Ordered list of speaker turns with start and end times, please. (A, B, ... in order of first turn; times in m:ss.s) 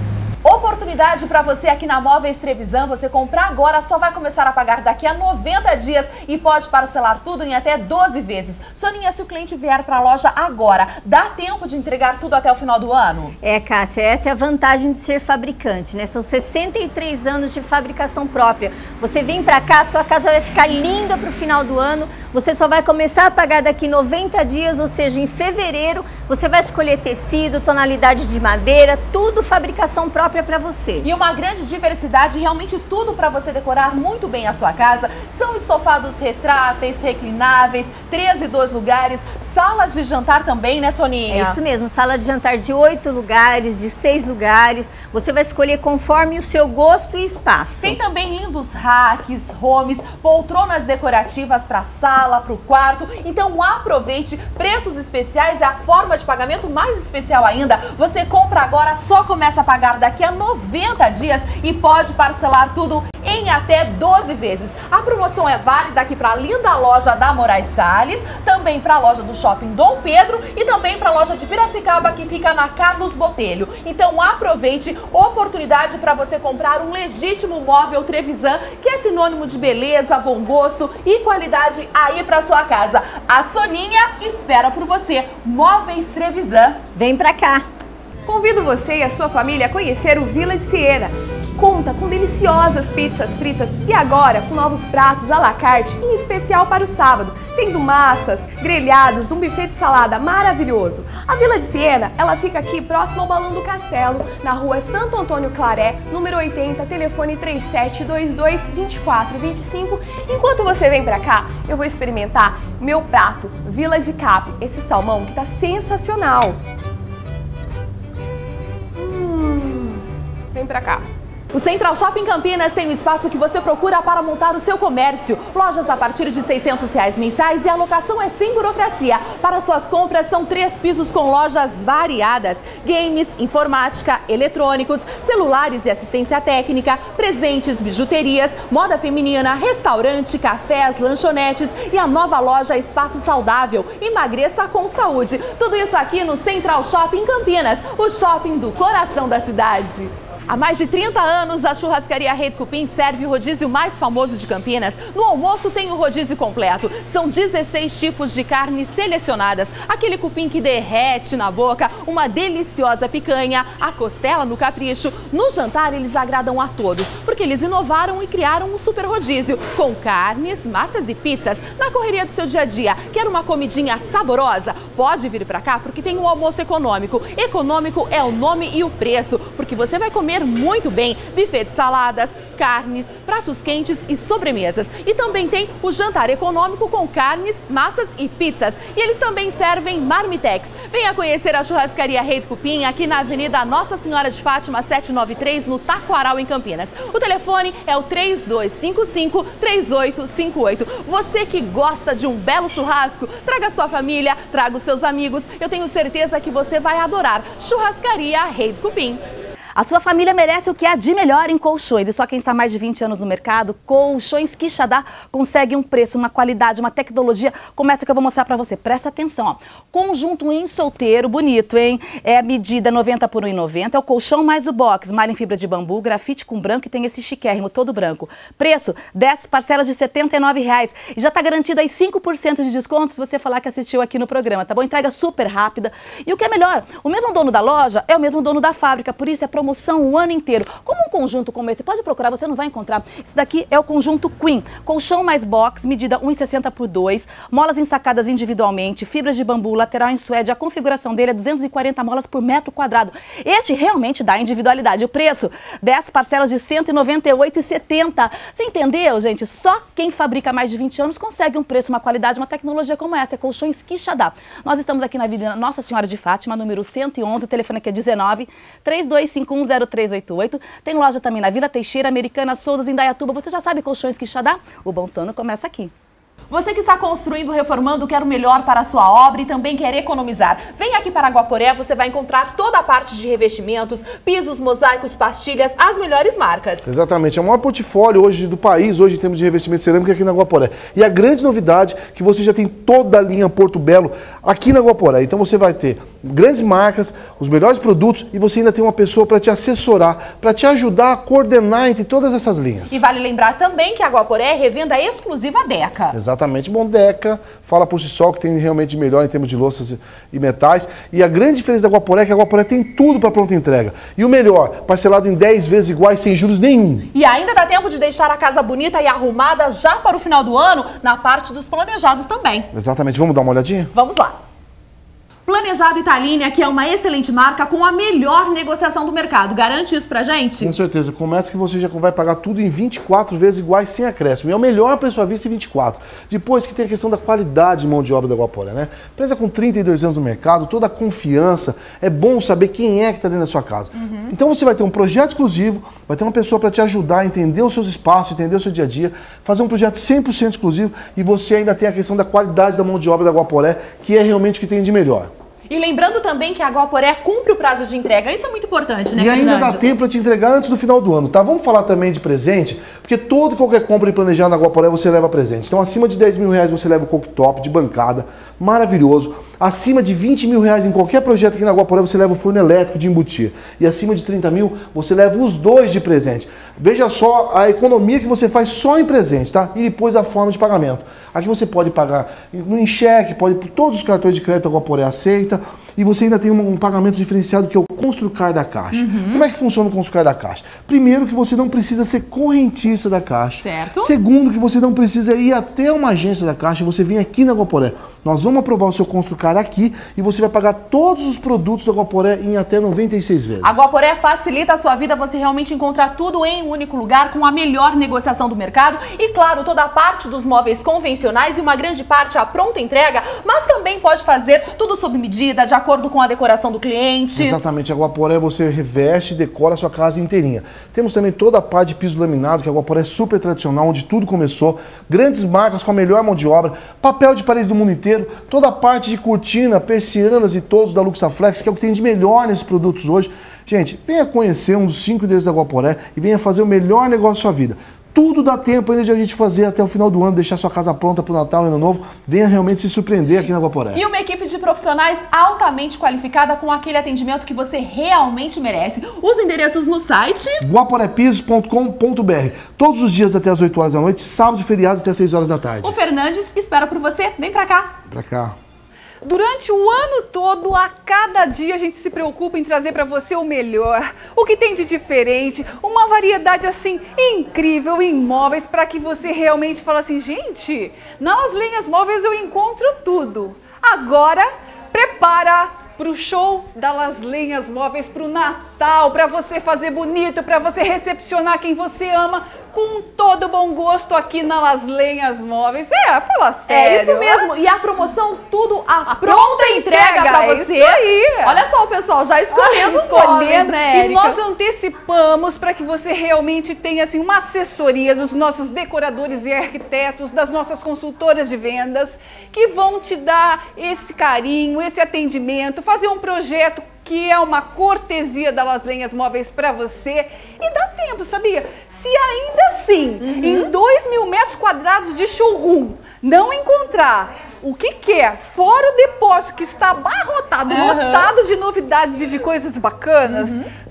0:00.4-0:13.3 A
0:13.4-0:31.1 B
0:31.0-0:41.6 A
0:41.3-0:48.0 B
0:47.8-1:26.8 A
1:27.0-1:27.6 B
1:28.2-1:56.6 C
1:59.0-2:00.0 C
2:00.5-2:01.0 C
2:01.5-3:29.2 A
3:29.8-4:35.9 D
4:36.5-4:46.8 A
4:46.9-5:03.0 E
5:02.9-5:06.2 A
5:06.1-5:17.1 E
5:17.1-5:22.7 A
5:22.7-5:23.9 E
5:23.9-5:24.4 A
5:25.4-5:30.7 A
5:30.6-5:55.3 E
5:43.9-5:44.3 A
5:55.7-5:59.9 A
5:59.2-6:43.9 E
6:28.9-6:29.4 A
6:33.6-6:34.1 A
6:43.6-6:57.6 A
6:57.3-7:24.0 E
7:23.9-7:30.6 A
7:30.6-7:35.9 E
7:35.8-7:37.9 A
7:38.1-7:38.6 E
7:39.2-8:07.5 F
8:06.7-8:14.4 A
8:09.1-8:11.6 F
8:12.5-8:43.6 F
8:33.2-8:33.7 A
8:40.7-8:41.3 A
8:43.3-8:43.7 A